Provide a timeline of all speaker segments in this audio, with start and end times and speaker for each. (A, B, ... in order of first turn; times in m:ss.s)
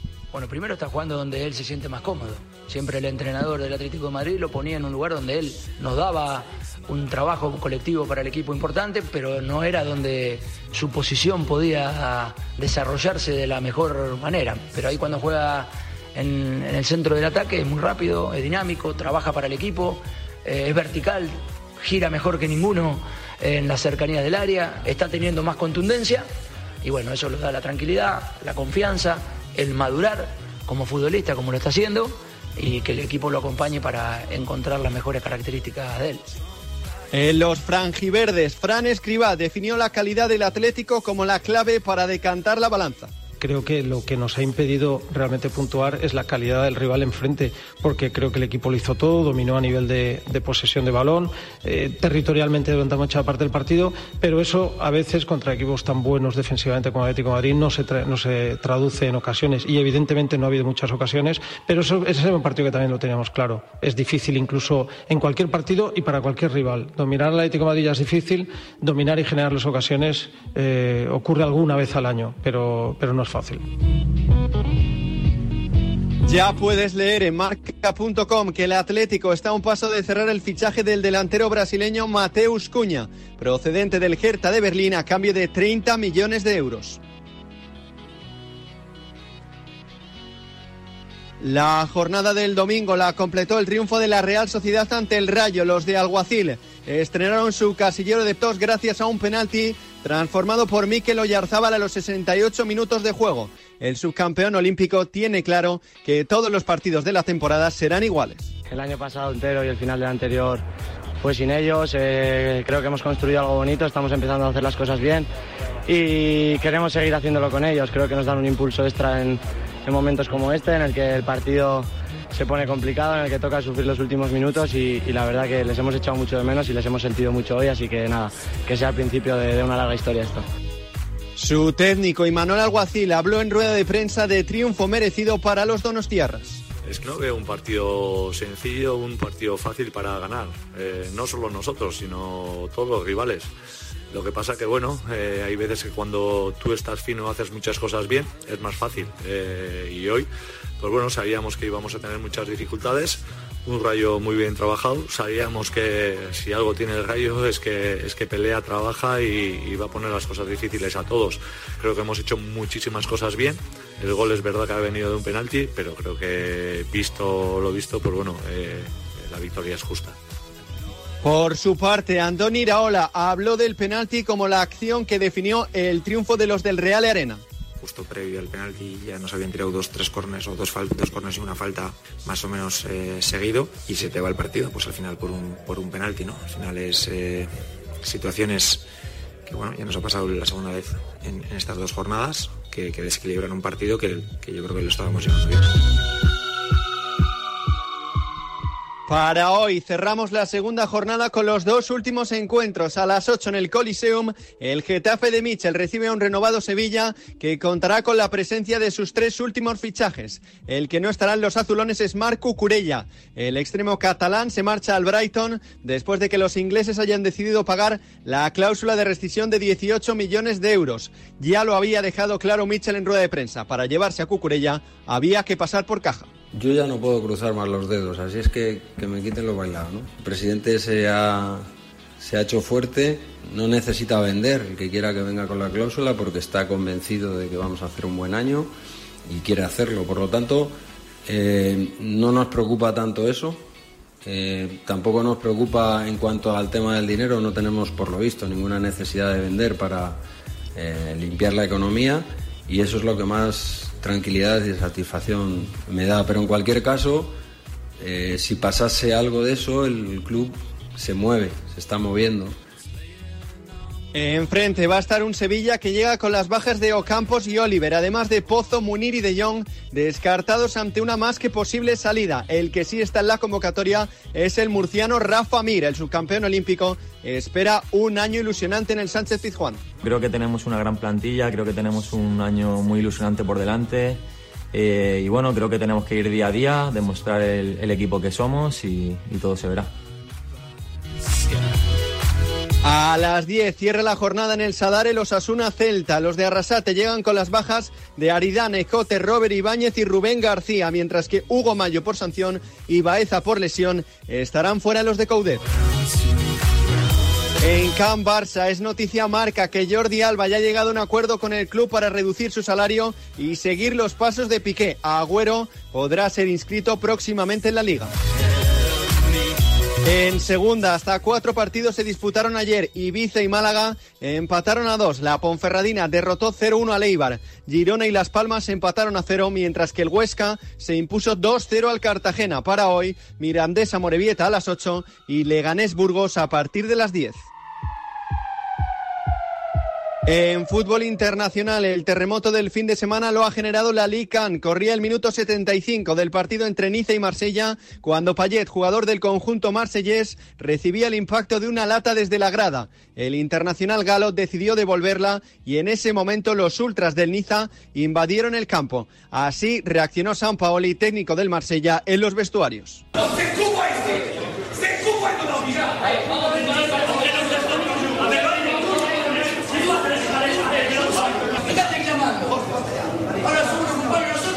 0:00.3-0:26.3 A
0:26.8-0:36.3 A
0:37.1-0:43.1 B
0:43.4-1:13.6 C
1:16.2-1:27.0 B
1:31.4-1:48.5 B
1:48.7-1:50.6 D
1:51.2-1:55.3 D
1:55.8-2:10.4 D
2:11.4-2:16.6 B
2:16.8-2:23.5 E
2:24.1-2:30.3 E
2:30.8-2:50.1 E
2:51.2-2:57.4 B
2:57.8-3:07.5 F
3:08.0-3:08.8 F
3:09.4-3:15.7 F
3:19.1-3:46.3 B
3:46.5-3:51.7 G
3:52.2-3:58.7 G
3:59.2-4:03.6 G
4:04.2-4:10.2 G
4:10.7-4:17.3 G
4:18.0-4:22.6 G
4:24.1-4:39.8 B
4:40.0-4:44.2 H
4:44.7-4:49.9 H
4:52.8-5:05.6 B
5:07.6-5:18.1 B
5:20.0-5:37.4 B
5:40.2-6:03.0 B